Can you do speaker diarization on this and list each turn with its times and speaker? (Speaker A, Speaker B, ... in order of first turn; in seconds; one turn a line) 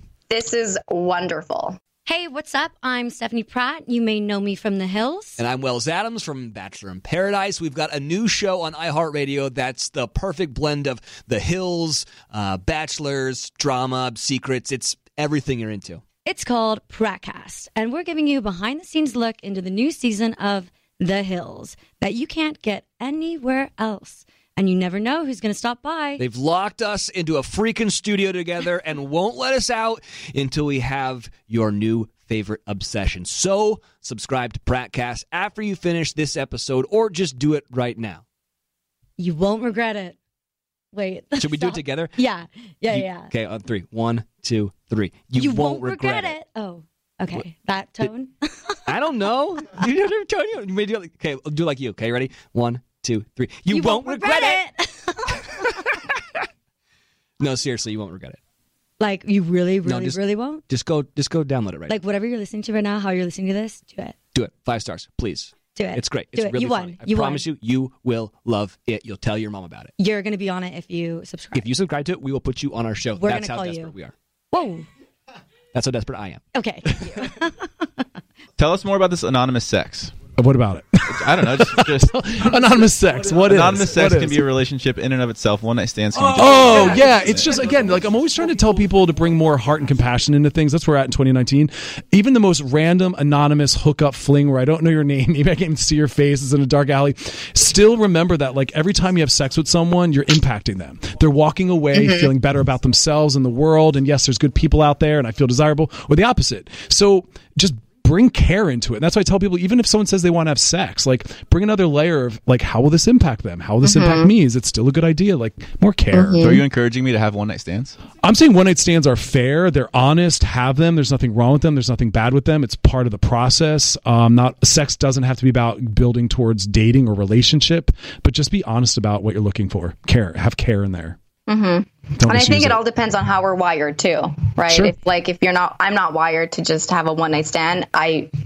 Speaker A: 0.3-1.8
Speaker B: 2.0-5.4
Speaker C: 5.4-16.0
Speaker B: 16.2-26.2
Speaker C: 26.2-38.2
Speaker B: 39.2-40.1
Speaker B: 40.9-43.3
Speaker C: 41.4-42.1
Speaker C: 42.9-46.4
Speaker B: 45.3-49.0
Speaker C: 47.3-48.1
Speaker C: 48.9-54.6
Speaker B: 53.7-55.3
Speaker C: 57.4-58.4
Speaker B: 59.0-60.6
Speaker C: 59.8-62.0
Speaker B: 61.9-64.2
Speaker C: 64.3-69.9
Speaker B: 65.7-67.5
Speaker B: 70.0-71.7
Speaker C: 71.5-74.1
Speaker B: 73.1-73.9
Speaker B: 74.5-74.8
Speaker C: 75.7-77.2
Speaker B: 76.5-78.0
Speaker D: 78.6-80.2
Speaker E: 80.3-84.4
Speaker D: 81.1-82.2
Speaker D: 83.4-87.6
Speaker E: 86.3-116.5
Speaker A: 101.9-102.3
Speaker A: 113.8-114.3
Speaker A: 116.1-116.6
Speaker D: 116.4-118.0
Speaker E: 118.2-131.2
Speaker A: 131.5-138.3
Speaker E: 132.2-132.8
Speaker E: 134.7-134.9